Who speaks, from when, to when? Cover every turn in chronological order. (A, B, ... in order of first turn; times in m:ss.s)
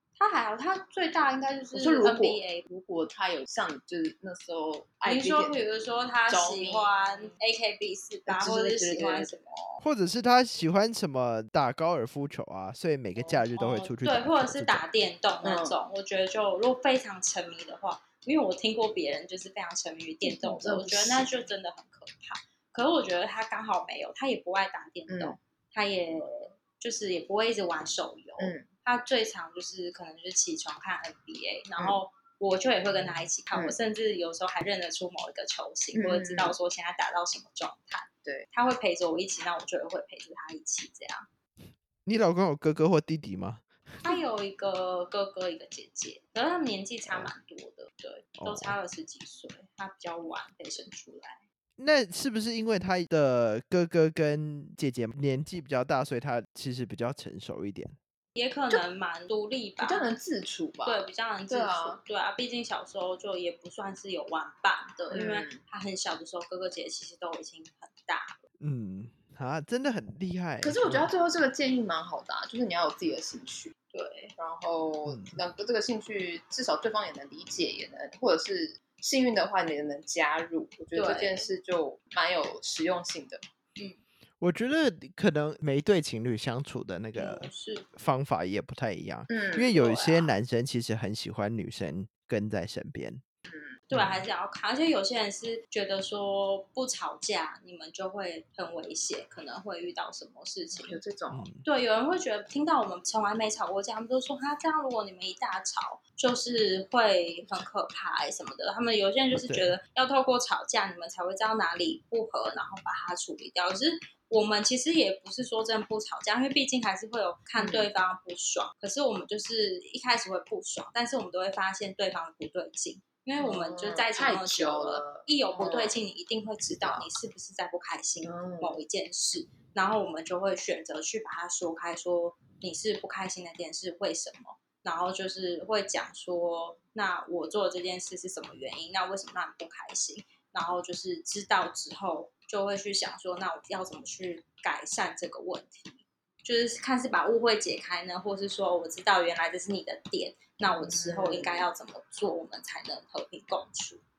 0:00.2-0:02.6 A
0:01.7-0:05.6 B
0:05.0-0:09.8 A
0:06.3-0:07.4 B
0:08.3-0:09.3 B
0:09.8-0:14.8 C
0:13.2-0:13.4 B
0:13.6-0:41.2 A
0:15.4-0:15.7 B
0:20.2-0:21.4 B
0:25.1-0:25.4 B
0:28.4-0:28.6 B
0:35.9-0:36.5 B
0:42.0-0:44.1 C
0:44.0-0:51.4 A
0:47.0-0:47.3 C
0:48.4-0:48.8 C
0:51.8-0:58.0 C
0:58.3-1:00.1 A
0:59.8-1:02.0 B
1:00.8-1:08.4 A
1:05.1-1:05.6 B
1:08.6-1:11.1 C
1:10.6-1:13.7 B
1:13.9-1:14.3 A
1:14.4-1:23.4 B
1:15.0-1:15.4 C
1:20.9-1:21.5 A
1:24.4-1:33.2 C
1:27.2-1:27.9 A
1:29.3-1:30.1 B
1:29.8-1:30.2 A
1:33.5-1:33.8 B
1:33.9-1:41.0 A
1:33.9-1:34.2 C
1:40.7-1:41.5 B
1:41.3-1:41.6 C
1:41.6-2:34.0 A
1:49.4-1:49.8 C
1:57.6-1:57.9 B
2:03.4-2:06.0 B
2:06.7-2:07.1 B
2:08.2-2:08.8 B
2:30.7-2:31.7 B